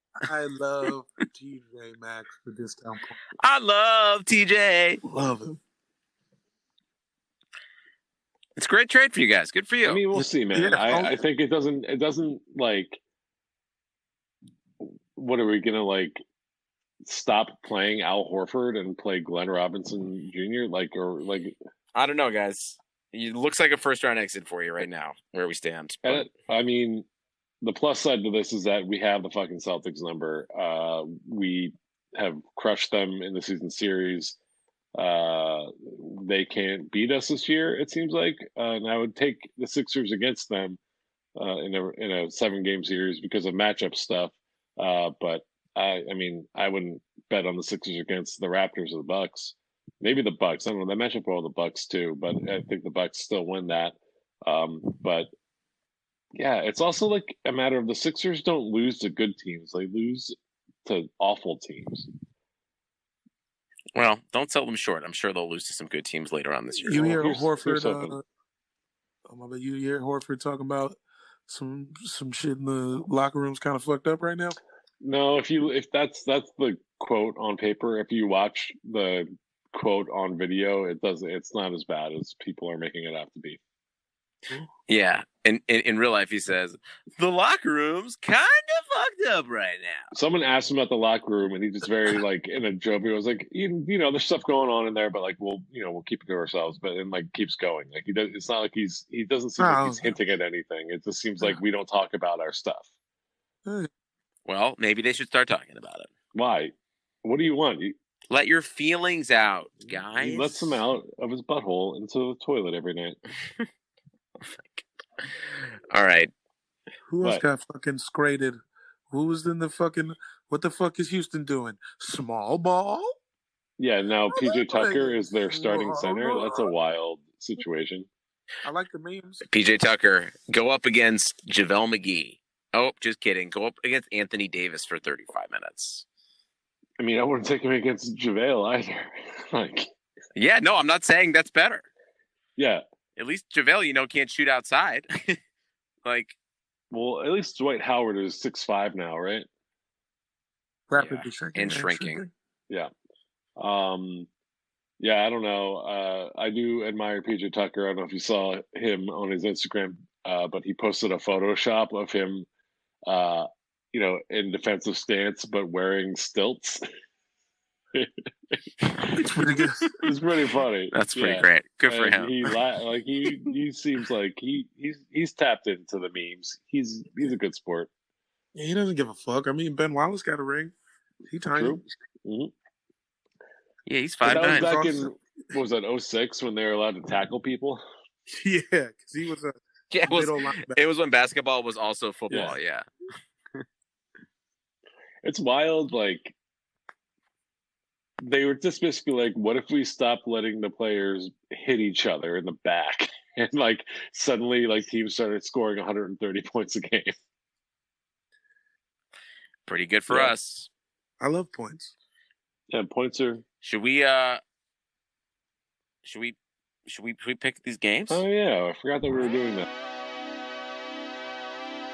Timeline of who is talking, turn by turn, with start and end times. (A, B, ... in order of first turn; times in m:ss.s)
0:00.2-0:03.2 A
0:03.4-0:05.0 B
0:05.0-0:05.6 A
0:08.6-0:10.0 B
0:09.8-0:13.0 C
0:10.1-0:11.2 A
0:14.8-0:16.2 C
0:17.0-0:21.6 C
0:22.0-0:26.3 B
0:26.0-0:27.1 C
0:27.6-0:34.4 C
0:35.0-0:40.8 C
0:41.4-0:55.3 C
0:56.4-1:02.1 C
1:04.0-1:07.3 B
1:06.8-1:08.2 A
1:07.0-1:08.2 C
1:09.3-1:14.6 A
1:15.0-1:23.6 C
1:24.9-1:30.1 B
1:30.1-1:42.9 C
1:39.6-1:40.1 A
1:44.5-1:46.1 B
1:46.3-1:48.0 C
1:48.3-1:50.8 B
1:50.2-1:53.2 C
1:54.4-1:56.3 B
1:57.1-1:58.6 A
1:59.1-2:03.1 A
2:03.8-2:08.1 C
2:04.3-2:06.7 A
2:08.6-2:09.4 A
2:09.5-2:16.0 B
2:17.0-2:19.9 C
2:20.4-2:21.8 B
2:22.6-2:22.8 C
2:23.2-2:25.4 B
2:26.0-2:26.4 B
2:26.9-2:29.5 C
2:30.9-2:32.3 A
2:31.0-2:32.2 B
2:33.6-2:34.3 C
2:35.0-2:42.5 C
2:43.1-2:46.8 C
2:47.9-2:48.6 C
2:48.9-2:49.7 B
2:49.2-2:49.9 A
2:50.0-2:57.9 C
2:50.9-2:52.4 B
2:58.6-3:00.7 A
3:01.3-3:01.8 A
3:01.5-3:02.5 C
3:03.9-3:04.8 B
3:04.2-3:07.8 C
3:04.2-3:05.1 A
3:08.3-3:09.6 A
3:09.9-3:12.8 B
3:10.1-3:10.8 A
3:12.3-3:12.6 C
3:15.2-3:16.4 C
3:18.2-3:27.1 C
3:29.7-3:30.7 B
3:30.1-3:30.3 C
3:31.2-3:31.9 A
3:32.7-3:33.4 C
3:33.6-3:34.4 B
3:36.0-3:38.2 B
3:38.1-3:39.7 C